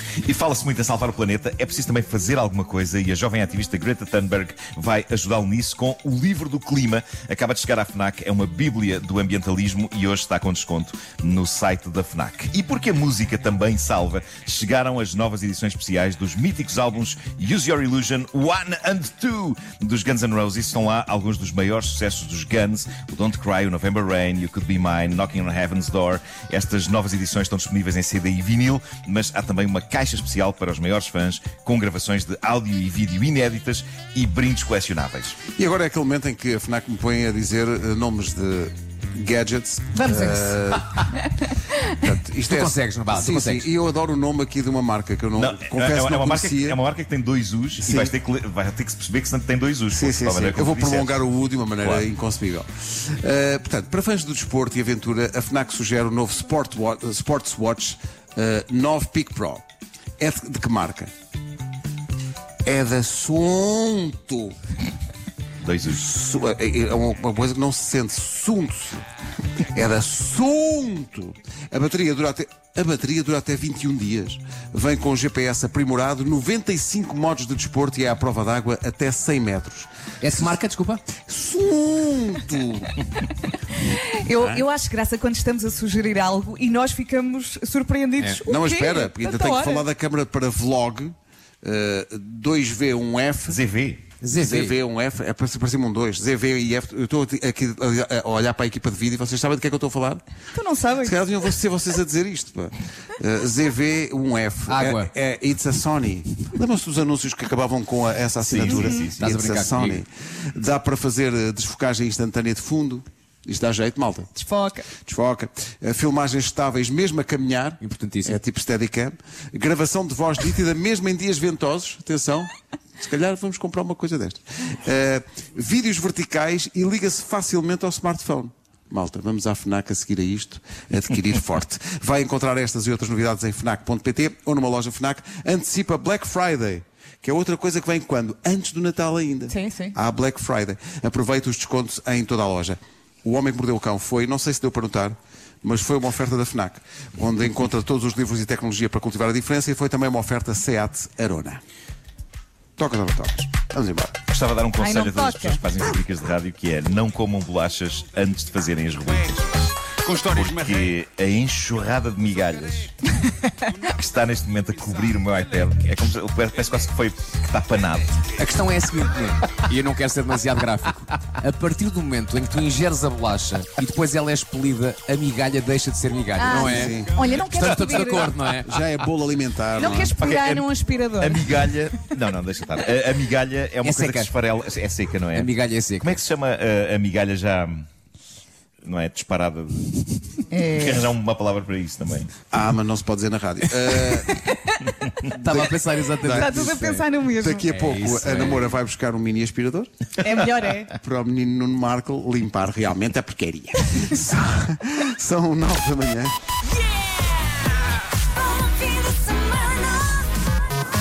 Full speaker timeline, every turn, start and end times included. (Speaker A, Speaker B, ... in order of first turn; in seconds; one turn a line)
Speaker A: 0.2-35.4
Speaker B: 35.5-41.1
Speaker C: 39.9-40.5
Speaker C: 41.1-41.8
Speaker B: 41.9-46.8
Speaker D: 42.4-43.7
Speaker A: 45.4-51.2
Speaker B: 47.8-48.1
Speaker B: 49.9-59.6
Speaker A: 51.8-52.1
Speaker B: 60.2-61.1
Speaker B: 62.6-64.5
Speaker A: 65.6-66.0
Speaker B: 65.9-69.0
Speaker B: 69.7-80.5
Speaker D: 80.2-81.0
Speaker B: 81.2-83.0
Speaker C: 83.8-89.8
Speaker B: 84.4-84.6
Speaker B: 88.4-93.6
Speaker A: 93.5-94.0
Speaker D: 94.2-94.8
Speaker B: 94.3-100.2
Speaker C: 100.5-101.2
Speaker B: 101.0-114.3
Speaker D: 104.7-105.1
Speaker A: 108.5-109.1
Speaker D: 108.6-110.0
Speaker C: 108.7-109.1
Speaker C: 114.3-114.8
Speaker B: 115.0-151.6
Speaker D: 117.8-118.4
Speaker C: 139.5-139.9
Speaker B: 152.8-154.1
Speaker A: 154.3-159.5
Speaker C: 154.8-155.6
Speaker E: 159.0-161.0
Speaker A: 160.3-162.9
Speaker E: 163.7-165.8
Speaker A: 163.9-168.2
Speaker D: 168.3-178.7
Speaker C: 176.4-178.3
Speaker B: 176.4-177.2
Speaker B: 178.1-180.1
Speaker C: 179.7-181.6
Speaker D: 179.8-180.1
Speaker A: 180.2-187.8
Speaker D: 183.8-184.3
Speaker D: 185.3-186.1
Speaker A: 188.8-192.3
Speaker C: 190.5-191.1
Speaker B: 192.5-194.5
Speaker C: 194.5-194.9
Speaker D: 195.2-197.1
Speaker B: 195.2-196.7
Speaker C: 196.3-197.7
Speaker B: 197.4-199.9
Speaker D: 197.6-198.7
Speaker C: 200.2-200.9
Speaker B: 200.9-206.3
Speaker C: 208.4-210.2